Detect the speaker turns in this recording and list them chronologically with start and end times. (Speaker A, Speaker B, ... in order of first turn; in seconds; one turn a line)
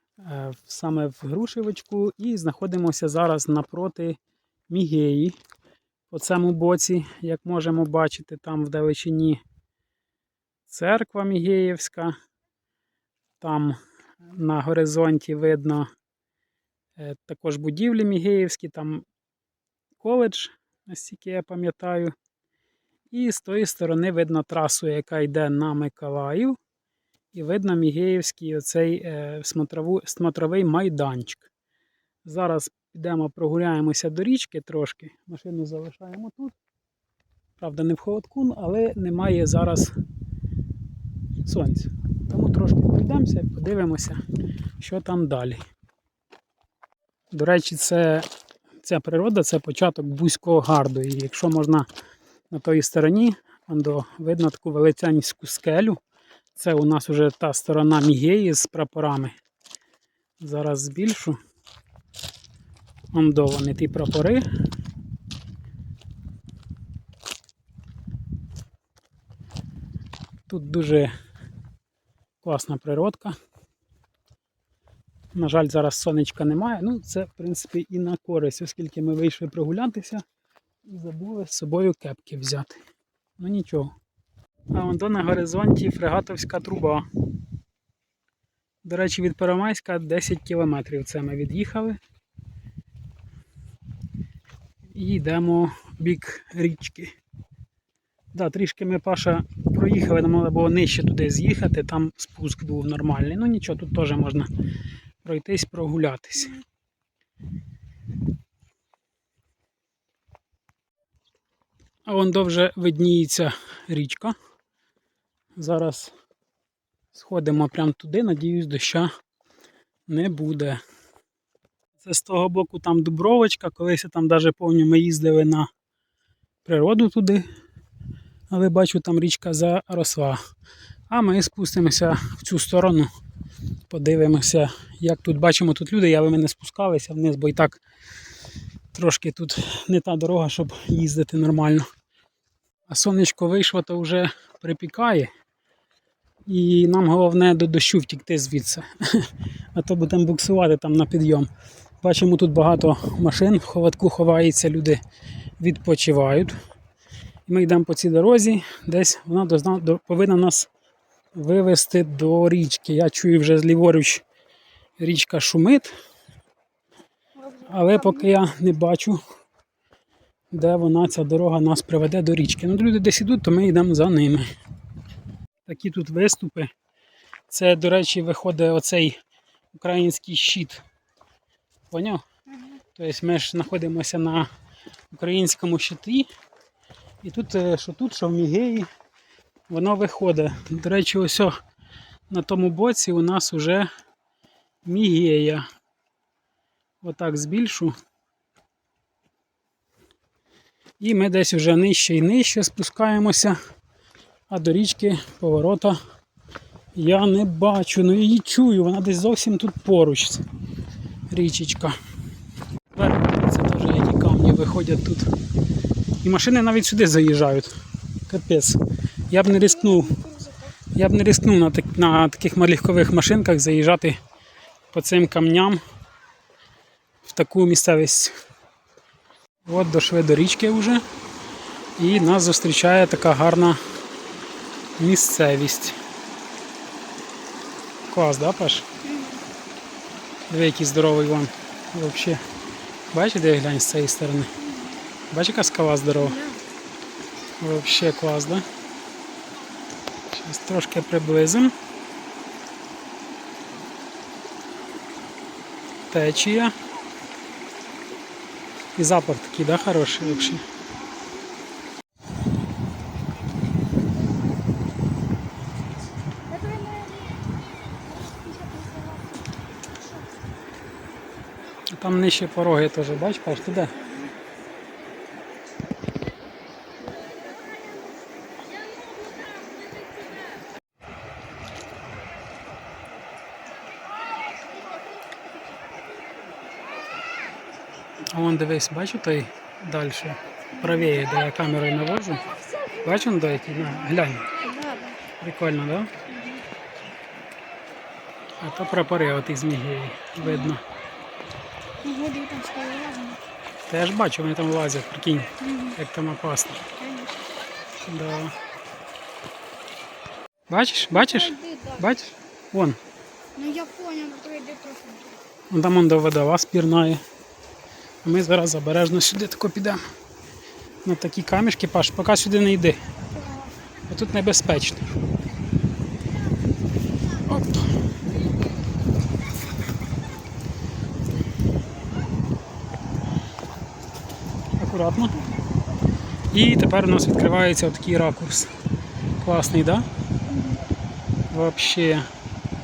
Speaker A: 0.2-5.4
Speaker A: 6.1-9.4
Speaker A: 10.7-12.2
Speaker A: 13.4-15.9
Speaker A: 17.0-19.1
Speaker A: 20.0-22.1
Speaker A: 23.1-26.6
Speaker A: 27.3-31.5
Speaker A: 32.2-36.5
Speaker A: 37.6-39.9
Speaker A: 41.4-44.2
Speaker A: 44.8-45.6
Speaker A: 47.3-48.3
Speaker A: 48.8-51.9
Speaker A: 52.5-56.0
Speaker A: 56.5-59.3
Speaker A: 60.4-61.4
Speaker A: 63.1-64.5
Speaker A: 70.5-71.1
Speaker A: 72.4-73.3
Speaker A: 75.3-80.2
Speaker A: 80.8-82.8
Speaker A: 83.4-83.9
Speaker A: 84.7-87.0
Speaker A: 88.8-92.0
Speaker A: 94.9-97.2
Speaker A: 98.3-104.5
Speaker A: 105.2-106.6
Speaker A: 112.0-114.3
Speaker A: 115.6-116.1
Speaker A: 117.1-119.1
Speaker A: 120.1-120.8
Speaker A: 122.0-125.7
Speaker A: 126.6-127.4
Speaker A: 128.5-130.4
Speaker A: 131.1-133.1
Speaker A: 133.9-137.8
Speaker A: 138.9-141.9
Speaker A: 142.9-145.3
Speaker A: 146.5-151.5
Speaker A: 152.0-155.0
Speaker A: 155.6-156.5
Speaker A: 157.5-160.7
Speaker A: 161.3-164.2
Speaker A: 165.0-165.9
Speaker B: 167.4-168.2
Speaker A: 167.6-169.2
Speaker A: 170.5-174.5
Speaker A: 175.6-176.7
Speaker A: 177.5-179.2
Speaker A: 179.7-180.8
Speaker A: 181.9-182.2
Speaker A: 182.9-184.5
Speaker A: 185.1-186.3
Speaker A: 187.2-188.9
Speaker A: 189.7-191.5
Speaker A: 192.3-193.9
Speaker A: 194.8-195.7
Speaker A: 197.0-197.9
Speaker A: 201.0-203.6
Speaker A: 204.5-206.0
Speaker A: 206.9-210.4
Speaker A: 211.3-211.9
Speaker A: 212.9-215.3
Speaker A: 216.2-217.7
Speaker A: 218.3-220.2
Speaker B: 219.9-220.6
Speaker A: 220.9-224.2
Speaker A: 224.9-225.8
Speaker A: 227.2-228.3
Speaker A: 229.6-231.0
Speaker A: 232.0-233.8
Speaker A: 235.0-236.0
Speaker A: 238.1-238.9
Speaker B: 239.0-239.4
Speaker A: 240.5-242.4
Speaker A: 243.1-244.5
Speaker B: 244.6-245.0
Speaker A: 245.3-246.4
Speaker B: 246.2-246.6
Speaker A: 247.6-248.6
Speaker A: 250.3-251.7
Speaker A: 256.1-256.7
Speaker A: 258.9-260.6
Speaker B: 260.3-260.6
Speaker B: 266.5-269.5
Speaker A: 271.9-274.0
Speaker B: 274.0-274.3
Speaker A: 288.3-294.6
Speaker B: 294.6-295.2
Speaker A: 295.4-296.1
Speaker B: 296.3-296.6
Speaker A: 298.6-300.8
Speaker B: 300.4-300.7
Speaker B: 302.0-303.4
Speaker A: 303.9-306.8
Speaker B: 305.6-306.0
Speaker B: 307.0-307.4
Speaker A: 308.0-308.6
Speaker A: 310.7-313.0
Speaker B: 311.1-312.0
Speaker B: 313.6-315.4
Speaker A: 315.7-317.2
Speaker A: 318.2-320.0
Speaker A: 321.0-323.0
Speaker A: 324.1-325.0
Speaker A: 327.4-327.9
Speaker A: 334.8-335.4
Speaker A: 336.5-338.7
Speaker A: 339.4-340.1
Speaker B: 340.5-340.8
Speaker A: 341.5-342.3